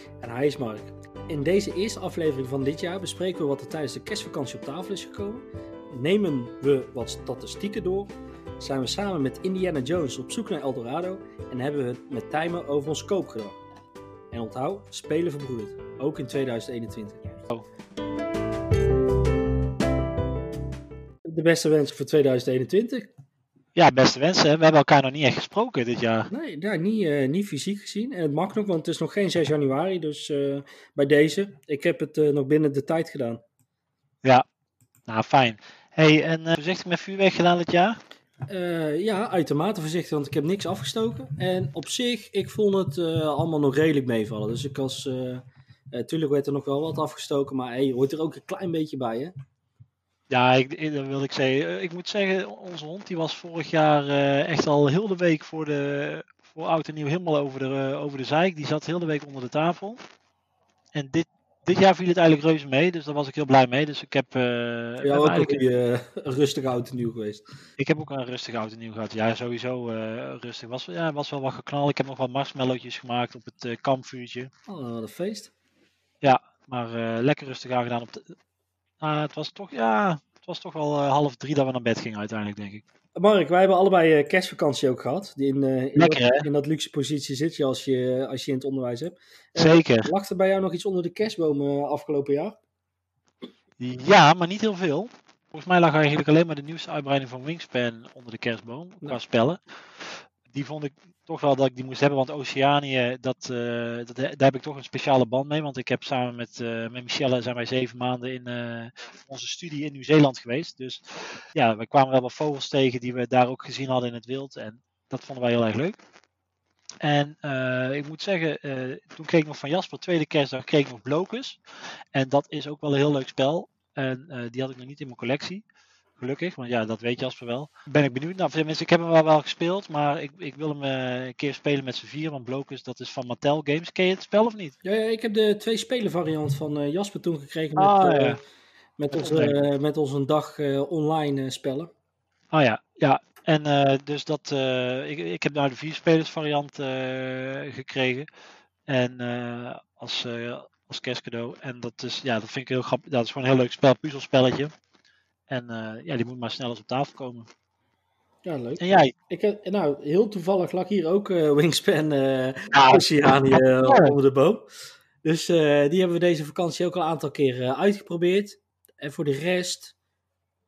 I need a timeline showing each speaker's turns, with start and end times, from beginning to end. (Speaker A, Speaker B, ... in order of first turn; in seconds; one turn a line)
Speaker A: 0.2-13.6
Speaker A: 14.3-17.2
Speaker A: 21.2-23.1
Speaker B: 23.7-26.3
Speaker A: 26.3-33.4
Speaker B: 35.1-38.0
Speaker A: 38.5-49.3
Speaker B: 50.3-60.0
Speaker B: 60.9-65.7
Speaker A: 65.0-67.4
Speaker B: 67.8-74.5
Speaker A: 74.7-75.5
Speaker B: 76.2-78.3
Speaker B: 79.0-82.8
Speaker A: 83.1-92.6
Speaker B: 86.0-86.5
Speaker B: 89.5-90.1
Speaker B: 93.8-116.0
Speaker B: 117.0-121.6
Speaker B: 122.1-125.6
Speaker B: 126.2-134.7
Speaker A: 134.8-138.4
Speaker B: 137.8-138.4
Speaker A: 139.0-141.9
Speaker B: 139.1-139.6
Speaker B: 142.5-148.3
Speaker B: 148.9-154.7
Speaker B: 155.5-157.5
Speaker A: 158.4-164.7
Speaker B: 158.8-159.1
Speaker B: 162.7-164.1
Speaker A: 165.2-169.9